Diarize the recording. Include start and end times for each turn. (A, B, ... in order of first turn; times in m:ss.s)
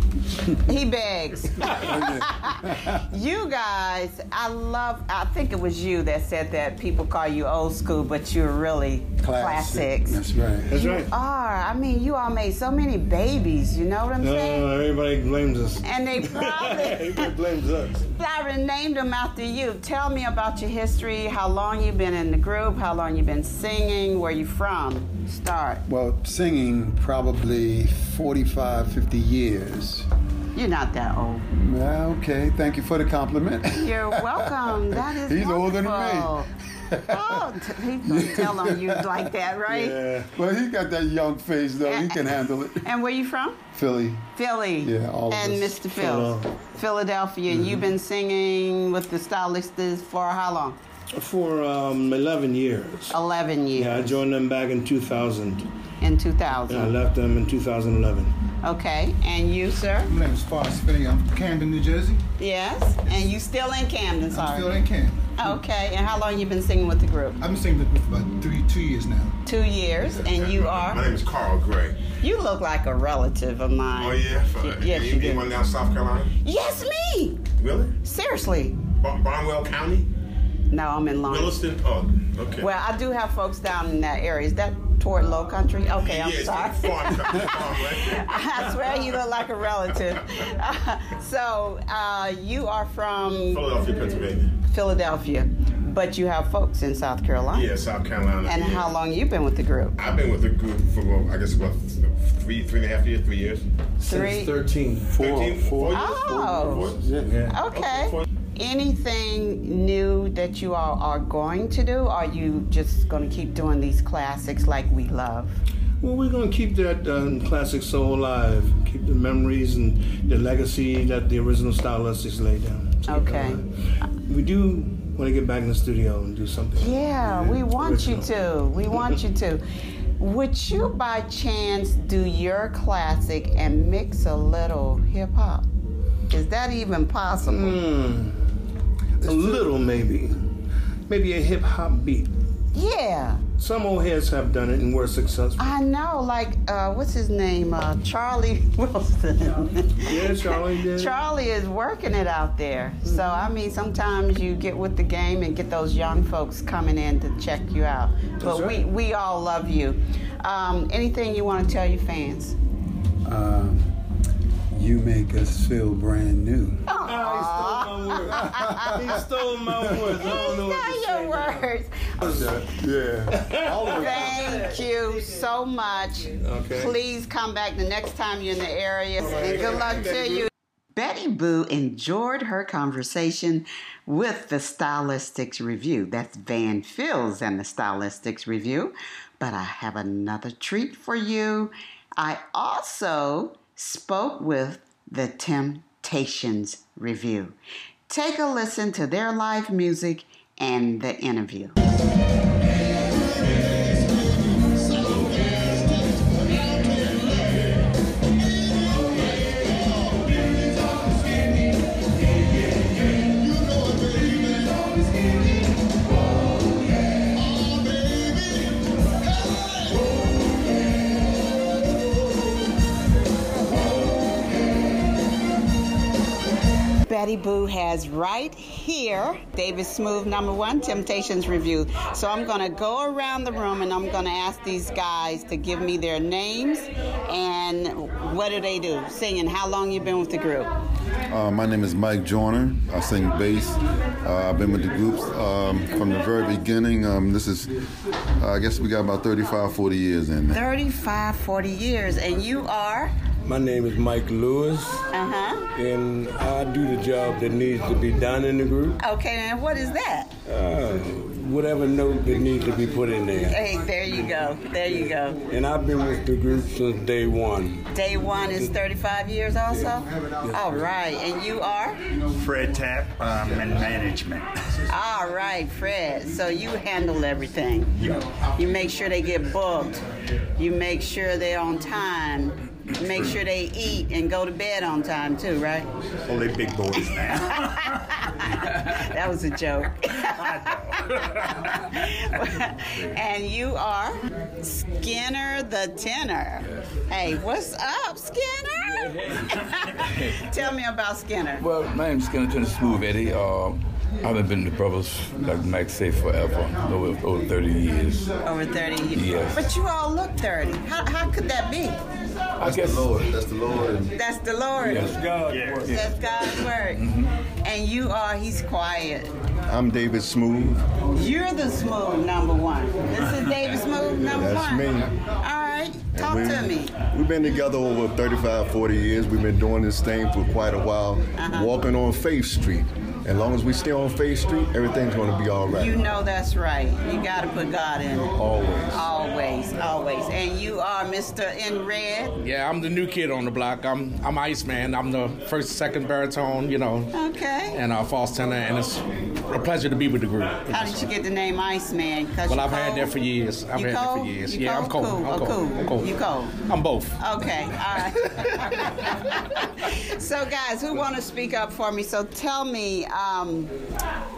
0:00.6-0:14.7 A
0:01.9-0:02.9 B
0:09.2-0:10.7 B
0:10.7-0:11.1 C
0:14.2-0:18.0 C
0:15.8-0:17.3 A
0:18.1-0:25.8 A
0:25.9-0:30.1 B
0:30.5-0:31.4 A
0:31.5-0:36.4 B
0:33.7-0:36.5 A
0:36.9-0:37.4 B
0:37.1-0:40.0 A
0:38.0-0:39.2 B
0:39.7-0:40.3 C
0:40.3-0:42.8 B
0:41.8-0:43.6 A
0:43.7-0:44.3 B
0:44.4-0:50.8 A
0:44.8-0:45.8 B
0:45.9-0:46.5 C
0:47.5-0:47.9 C
0:51.1-0:53.2 C
0:53.1-0:54.2 A
0:53.8-0:55.7 C
0:56.0-0:57.0 A
0:56.7-0:58.3 C
0:58.6-1:00.1 A
1:00.1-1:02.2 D
1:02.4-1:04.8 A
1:04.3-1:05.3 D
1:05.4-1:07.4 A
1:07.4-1:09.3 D
1:09.4-1:11.0 A
1:10.2-1:12.1 E
1:12.2-1:15.5 A
1:13.9-1:16.3 E
1:16.4-1:17.4 A
1:17.6-1:18.0 E
1:18.0-1:18.8 A
1:19.0-1:20.1 E
1:20.7-1:21.6 A
1:21.3-1:22.7 E
1:22.6-1:33.6 A
1:25.9-1:28.3 E
1:33.4-1:34.6 E
1:34.7-1:37.7 A
1:37.5-1:39.0 E
1:38.4-1:39.9 A
1:40.0-1:43.6 E
1:44.0-1:44.5 A
1:44.0-1:45.1 C
1:45.1-1:47.1 E
1:45.9-1:46.9 A
1:46.2-1:47.4 B
1:47.2-1:47.6 C
1:47.5-1:55.6 A
1:47.7-1:48.2 E
1:56.0-2:03.7 C
2:03.0-2:03.6 A
2:04.3-2:08.3 C
2:06.8-2:09.6 A
2:10.2-2:15.7 A
2:16.3-2:17.8 A
2:17.4-2:18.4 C
2:19.2-2:20.5 C
2:19.2-2:19.6 D
2:21.1-2:22.3 C
2:22.7-2:23.4 A
2:23.6-2:25.7 C
2:25.6-2:42.6 A
2:30.0-2:31.2 C
2:38.4-2:38.8 C
2:43.2-2:43.9 B
2:44.7-2:46.8 B
2:46.9-2:49.2 A
2:47.0-2:52.7 C
2:48.6-2:49.0 B
2:50.1-2:52.6 A
2:52.5-2:54.2 B
2:53.3-2:54.5 C
2:53.9-3:17.6 A
2:56.4-2:57.0 C
2:59.2-3:00.5 E
3:18.1-3:21.8 A
3:47.0-4:00.7 A
4:01.3-4:07.7 F
4:08.4-4:10.6 F
4:10.5-4:13.1 A
4:13.4-4:15.0 G
4:15.1-4:15.7 A
4:15.7-4:19.0 G
4:19.0-4:20.3 A
4:20.5-4:23.5 G
4:23.5-4:25.4 A
4:25.5-4:27.9 G
4:27.9-4:32.0 A
4:32.3-4:34.5 H
4:34.9-4:37.9 A
4:38.5-4:40.0 A
4:40.6-4:45.9 A
4:46.3-4:47.6 H
4:47.6-5:01.7 A
5:00.0-5:00.5 I
5:01.6-5:08.3 I
5:08.4-5:12.0 A
5:09.1-5:09.7 I
5:12.6-5:13.1 I
5:12.6-5:14.1 F
5:14.1-5:15.2 A
5:14.8-5:16.1 I
5:15.1-5:15.8 G
5:15.5-5:15.9 H
5:15.9-5:17.0 A
5:16.9-5:17.3 I
5:17.6-5:19.3 A
5:19.7-5:20.8 J
5:21.1-5:26.9 A
5:24.2-5:25.1 J
5:26.1-5:36.0 J
5:31.4-5:31.8 A
5:35.7-5:38.3 A
5:38.4-5:39.0 J
5:38.9-5:42.4 A
5:42.4-5:47.1 K
5:47.1-5:47.8 A
5:47.7-5:51.1 K
5:50.7-5:53.1 A
5:52.5-5:56.1 K
5:53.7-5:56.6 A
5:56.7-5:57.2 K
5:57.2-6:03.7 A